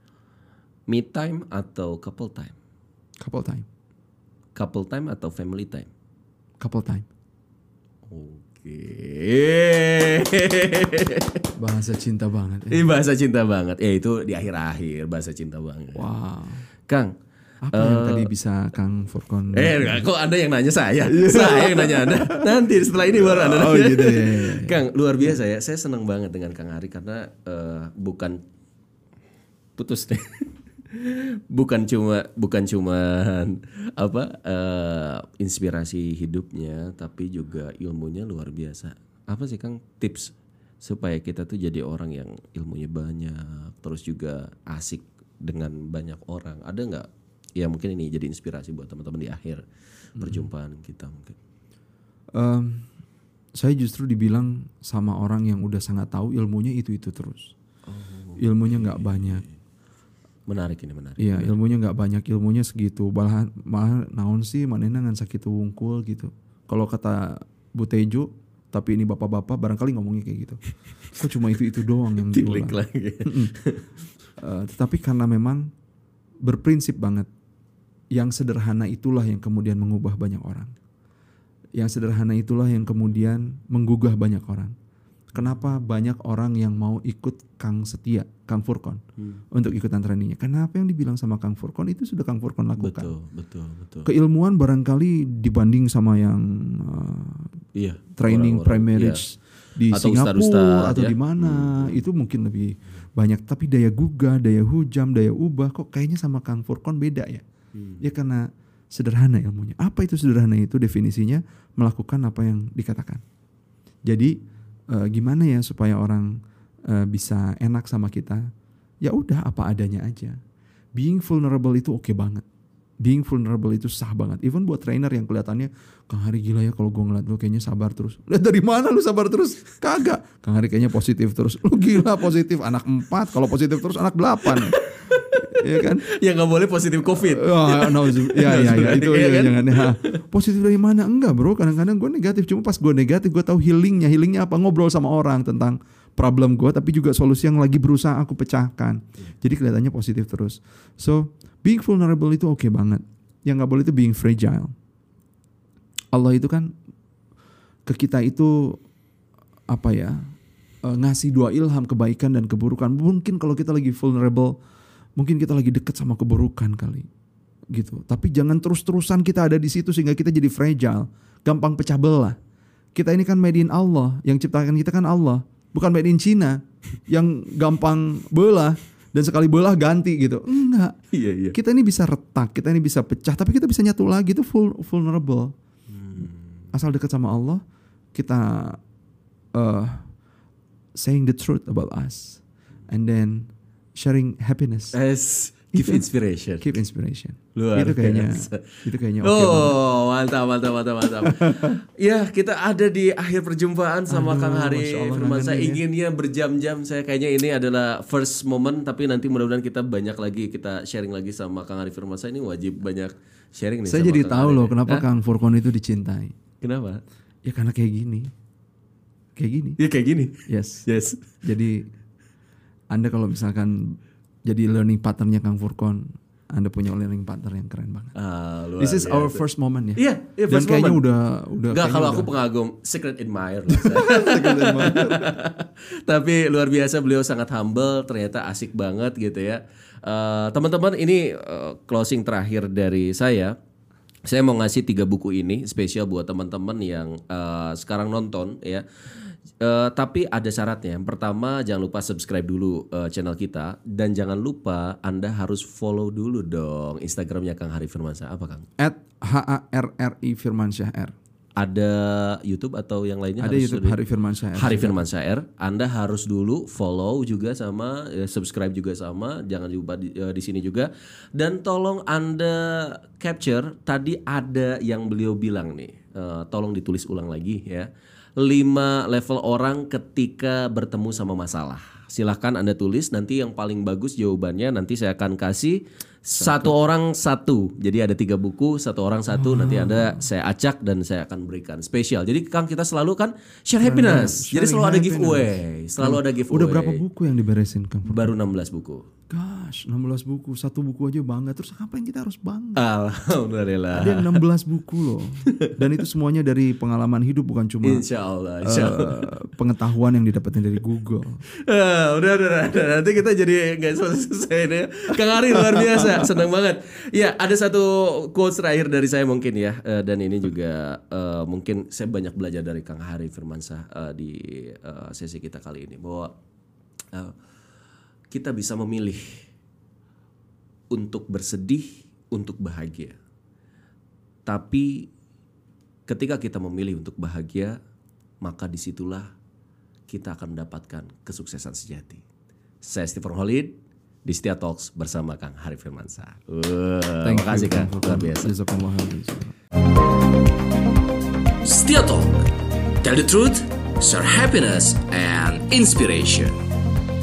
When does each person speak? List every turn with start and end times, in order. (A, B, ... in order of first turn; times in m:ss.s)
0:00.9-0:02.5 A
0:03.2-0:03.6 B
0:04.5-0:05.9 A
0:06.6-0:07.0 B
0:08.1-0:11.4 A
0:11.6-0:12.8 B
0:12.7-0:16.0 A
0:15.9-0:16.6 B
0:16.8-0:17.1 A
0:17.6-0:20.0 B
0:17.7-0:18.3 A
0:19.5-0:28.4 A
0:21.0-0:24.8 B
0:29.8-0:49.6 A
0:50.2-0:50.4 B
0:50.2-0:51.4 A
0:52.3-0:52.9 B
0:53.6-0:57.5 B
0:57.9-0:59.5 A
0:58.4-0:59.4 B
1:00.5-1:01.5 A
1:01.2-1:13.5 B
1:12.2-1:13.8 A
1:14.4-1:15.7 B
1:16.4-1:17.3 B
1:18.1-1:20.7 B
1:21.8-1:24.7 B
1:25.3-1:29.0 B
1:29.5-1:33.1 B
1:32.8-1:34.1 A
1:34.0-1:37.5 B
1:37.7-1:39.2 A
1:38.2-1:47.4 B
1:39.9-1:42.0 A
1:47.7-1:48.0 A
1:48.0-1:53.2 B
1:54.1-1:54.3 B
1:54.9-1:56.4 B
1:56.9-1:58.4 B
1:59.0-2:00.4 B
2:01.0-2:02.4 B
2:03.0-2:16.0 B
2:14.4-2:20.2 A
2:17.1-2:34.7 B
2:36.1-2:36.7 B
2:37.9-2:38.8 B
2:39.7-2:40.3 B
2:40.8-2:44.6 B
2:45.2-2:47.1 B
2:47.7-2:52.4 B
2:52.9-3:01.0 B
3:01.1-3:01.5 A
3:01.5-3:05.5 B
3:05.9-3:06.4 A
3:06.7-3:07.6 B
3:08.1-3:08.8 B
3:09.5-3:10.1 B
3:11.0-3:14.9 B
3:14.9-3:16.7 A
3:15.7-3:16.0 B
3:16.6-3:19.7 B
3:17.5-3:35.0 A
3:21.2-3:21.8 B
3:24.1-3:25.8 B
3:33.9-3:36.4 B
3:36.6-3:37.0 A
3:37.4-3:38.3 B
3:39.4-3:39.8 B
3:39.8-3:41.2 A
3:40.5-3:40.8 B
3:41.4-3:41.9 B
3:42.9-3:48.1 B
3:48.1-3:49.4 A
3:48.8-3:52.3 B
3:50.0-3:51.0 A
3:51.7-4:03.6 A
3:53.7-3:55.4 B
4:04.2-4:08.8 A
4:09.6-4:18.7 A
4:18.8-4:21.1 B
4:21.6-4:24.0 A
4:23.4-4:25.0 B
4:24.5-4:57.0 A
4:46.4-4:46.7 B
4:49.3-4:50.3 B
4:53.8-4:58.3 B
4:58.0-4:59.0 A
4:59.3-5:02.8 B
5:02.8-5:04.4 A
5:03.9-5:08.0 B
5:05.4-5:05.7 A
5:07.8-5:09.3 A
5:08.6-5:11.4 B
5:11.6-5:26.3 A
5:28.3-5:29.4 A
5:30.9-5:33.2 A
5:34.5-5:35.1 A
5:36.1-5:37.8 A
5:38.4-5:39.3 A
5:40.1-5:42.2 A
5:42.8-5:48.5 A
5:47.2-5:49.5 B
5:51.6-5:52.5 C
5:53.0-5:56.6 C